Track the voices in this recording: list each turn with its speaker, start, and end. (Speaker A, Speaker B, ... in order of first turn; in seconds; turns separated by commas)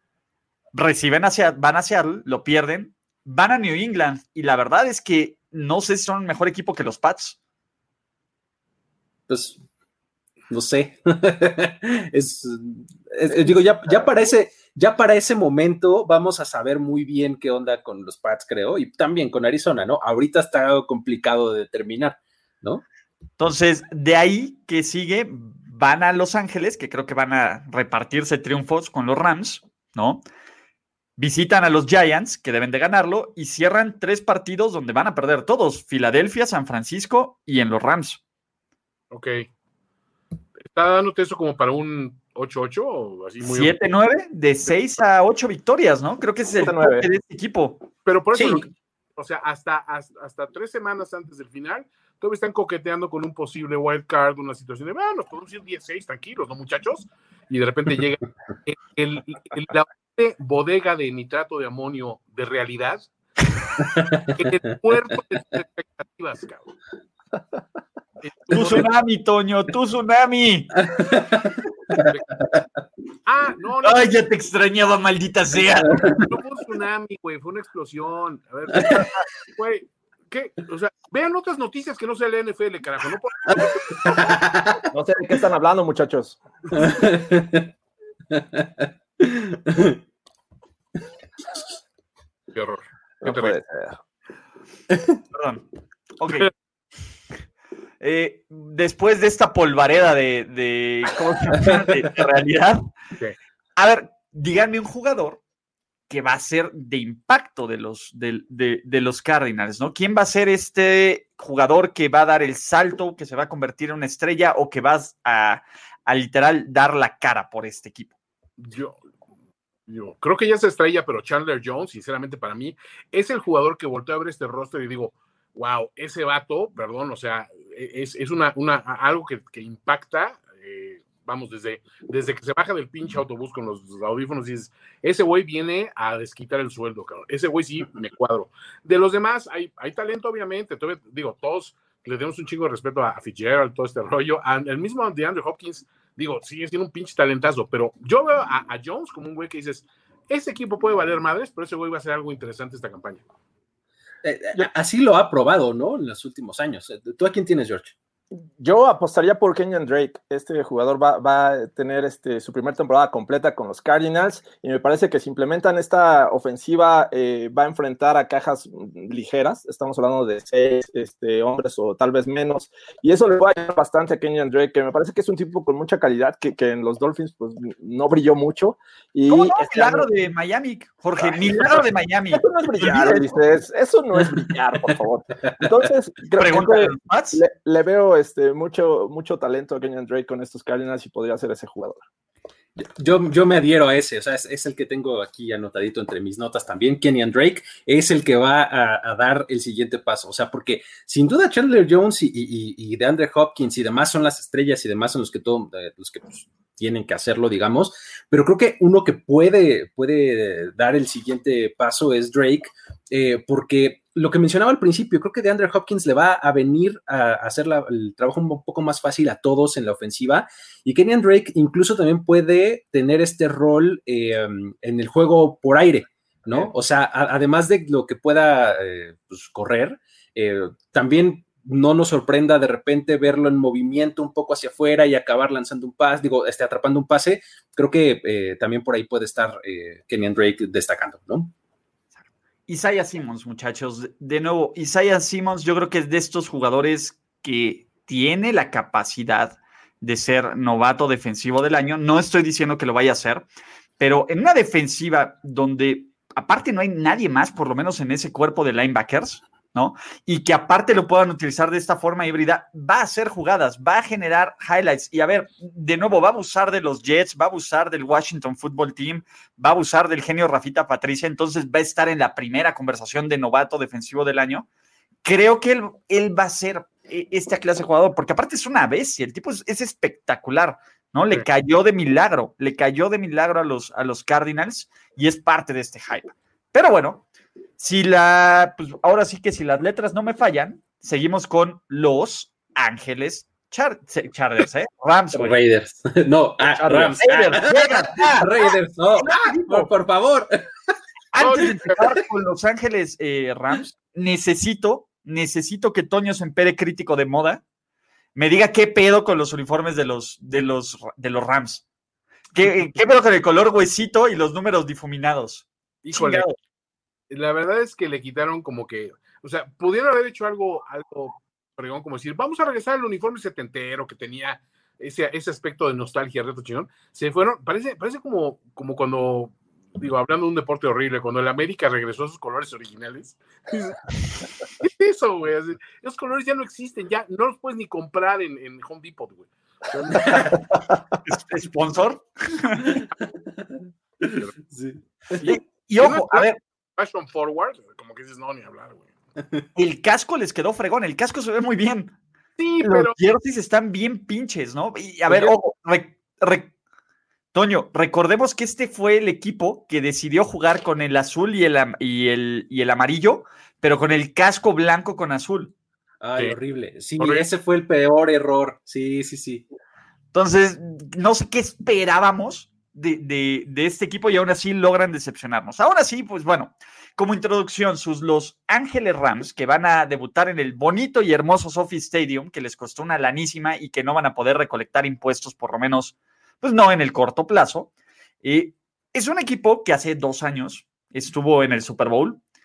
Speaker A: 0.7-7.4, Speaker B: 9.3-9.6, Speaker B: 10.5-22.8, Speaker C: 13.4-14.0, Speaker A: 23.4-30.2, Speaker A: 31.2-38.2, Speaker D: 39.1-39.5, Speaker D: 40.6-43.7, Speaker A: 43.4-47.8, Speaker C: 46.6-47.1, Speaker D: 48.0-63.1, Speaker B: 48.3-48.6, Speaker B: 63.8-64.3, Speaker D: 64.3-66.7, Speaker D: 68.2-68.8, Speaker A: 68.5-70.7, Speaker B: 70.8-72.7, Speaker D: 73.2-74.2, Speaker A: 73.8-76.1, Speaker B: 75.7-76.3, Speaker D: 76.0-84.2, Speaker B: 78.8-79.0, Speaker B: 83.5-84.8, Speaker C: 84.9-86.4, Speaker B: 86.7-87.7, Speaker B: 88.3-90.0, Speaker D: 92.5-93.6, Speaker C: 93.2-94.0, Speaker A: 95.3-95.6, Speaker A: 96.2-96.5, Speaker A: 98.0-102.8, Speaker A: 103.8-105.4, Speaker A: 106.1-118.1, Speaker D: 118.6-119.0, Speaker D: 119.9-153.2, Speaker B: 154.2-157.9, Speaker C: 158.6-180.1, Speaker A: 179.3-183.3, Speaker C: 181.2-181.8, Speaker C: 182.3-192.0, Speaker A: 186.4-187.4, Speaker B: 192.8-241.5, Speaker A: 242.7-253.4, Speaker A: 254.0-274.6, Speaker A: 275.2-287.2, Speaker A: 287.8-295.6, Speaker B: 295.3-300.9, Speaker C: 296.8-297.6, Speaker A: 297.2-298.5, Speaker A: 299.2-299.9, Speaker A: 301.3-307.6, Speaker D: 301.4-302.0, Speaker A: 308.3-311.8, Speaker A: 312.5-316.6, Speaker D: 316.0-316.5, Speaker D: 317.3-334.0, Speaker D: 334.7-340.6, Speaker B: 340.1-340.6, Speaker A: 341.2-343.0, Speaker B: 342.9-345.4, Speaker D: 345.4-349.1, Speaker A: 345.4-346.6, Speaker A: 349.7-352.1, Speaker D: 352.6-353.1, Speaker A: 352.8-356.7, Speaker A: 357.5-365.7, Speaker B: 366.2-369.6, Speaker D: 367.2-367.5, Speaker A: 370.3-387.9, Speaker A: 388.4-392.4